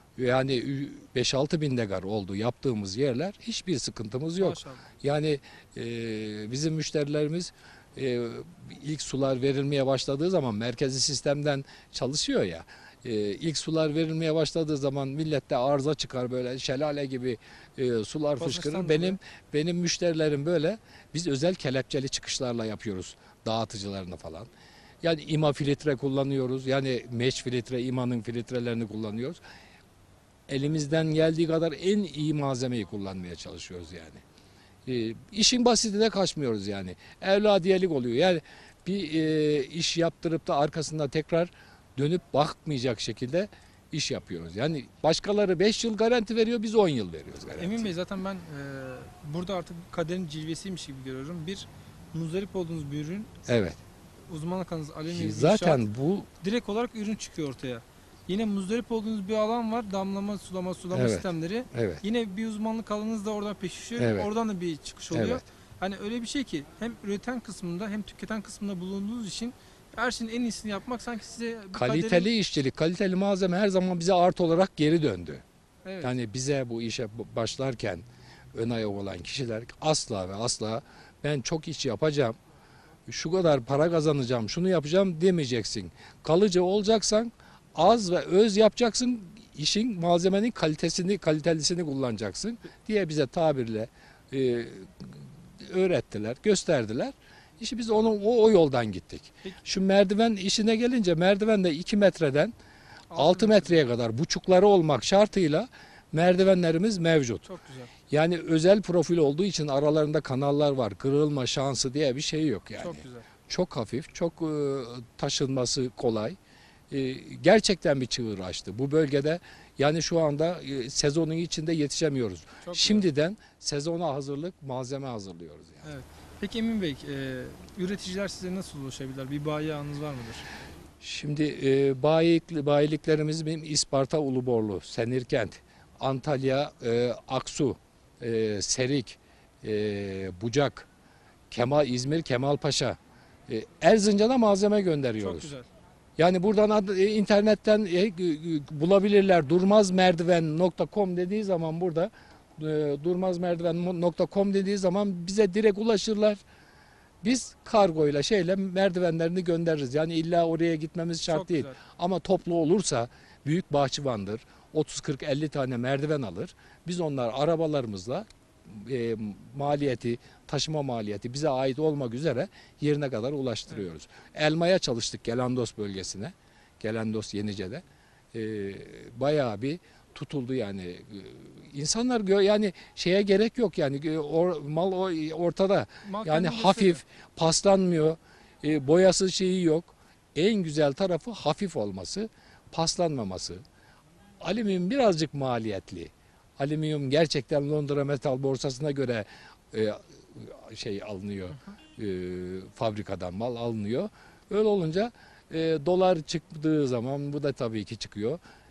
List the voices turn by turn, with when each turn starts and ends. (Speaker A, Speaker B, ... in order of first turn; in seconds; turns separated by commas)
Speaker A: 0.2-24.5, Speaker B: 4.3-4.8, Speaker B: 18.4-19.2, Speaker A: 25.0-29.4, Speaker A: 30.5-34.2, Speaker A: 34.9-47.9, Speaker B: 47.5-53.3, Speaker A: 53.5-53.8, Speaker B: 54.3-55.8, Speaker A: 55.0-56.3, Speaker B: 56.4-72.3, Speaker A: 60.9-62.0, Speaker A: 64.0-64.3, Speaker A: 65.1-65.4, Speaker A: 71.7-75.4, Speaker B: 75.8-76.1, Speaker A: 76.0-82.3, Speaker A: 83.1-102.5, Speaker B: 103.1-103.8, Speaker A: 103.1-107.5, Speaker B: 107.4-107.9, Speaker A: 108.1-116.4, Speaker B: 112.8-113.2, Speaker A: 116.9-125.9, Speaker B: 122.6-123.0, Speaker B: 125.8-130.5, Speaker A: 131.0-140.9, Speaker A: 141.5-145.5, Speaker B: 145.2-145.7, Speaker A: 146.2-156.4, Speaker A: 157.2-193.6, Speaker B: 161.3-161.8, Speaker B: 186.0-187.0, Speaker A: 194.4-208.4